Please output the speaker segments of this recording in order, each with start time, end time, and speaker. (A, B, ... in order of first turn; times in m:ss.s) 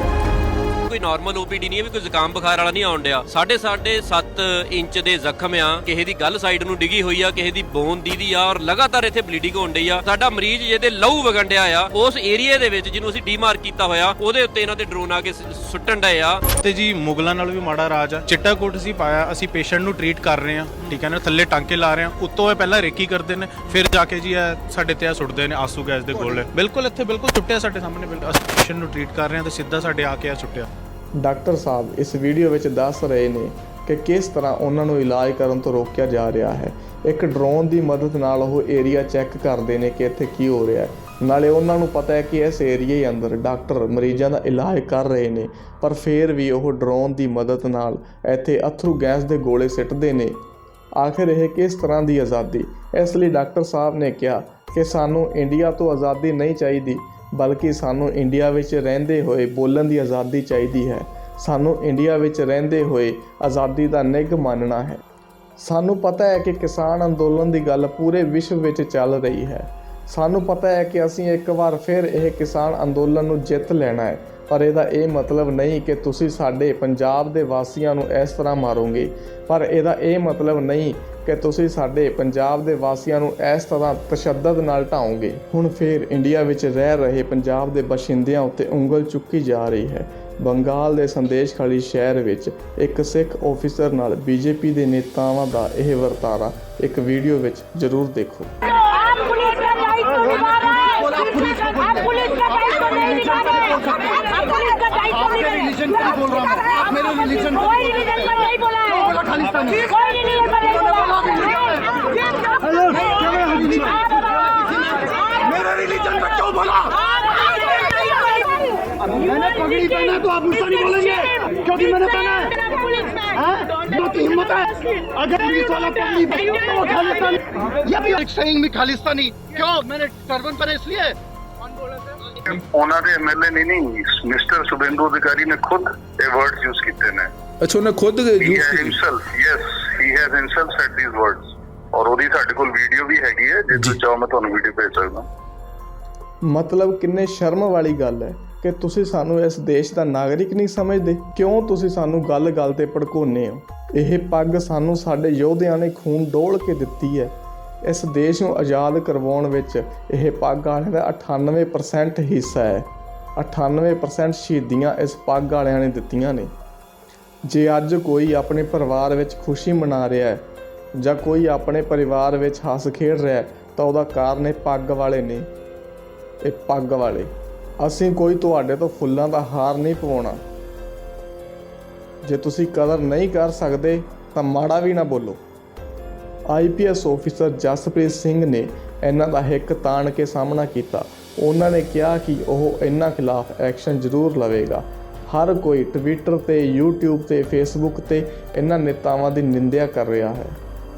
0:00.9-0:16.4 A
0:16.6-0:30.7 B
0:31.2-0:50.4 C
0:51.0-1:05.0 C
1:05.6-1:38.5 C
1:40.0-1:44.3 D
1:44.9-1:49.9 D
1:50.9-1:52.1 D
1:52.8-1:54.0 D
1:54.6-1:56.9 D
1:59.1-2:02.6 D
2:03.2-2:11.2 D
2:11.8-2:12.4 D
2:12.4-2:17.3 E
2:17.9-2:18.4 C
2:18.3-2:25.3 E
2:26.4-2:46.5 C
2:47.4-2:55.5 C
2:56.4-3:00.4 C
3:02.2-3:05.4 C
3:06.5-3:20.6 C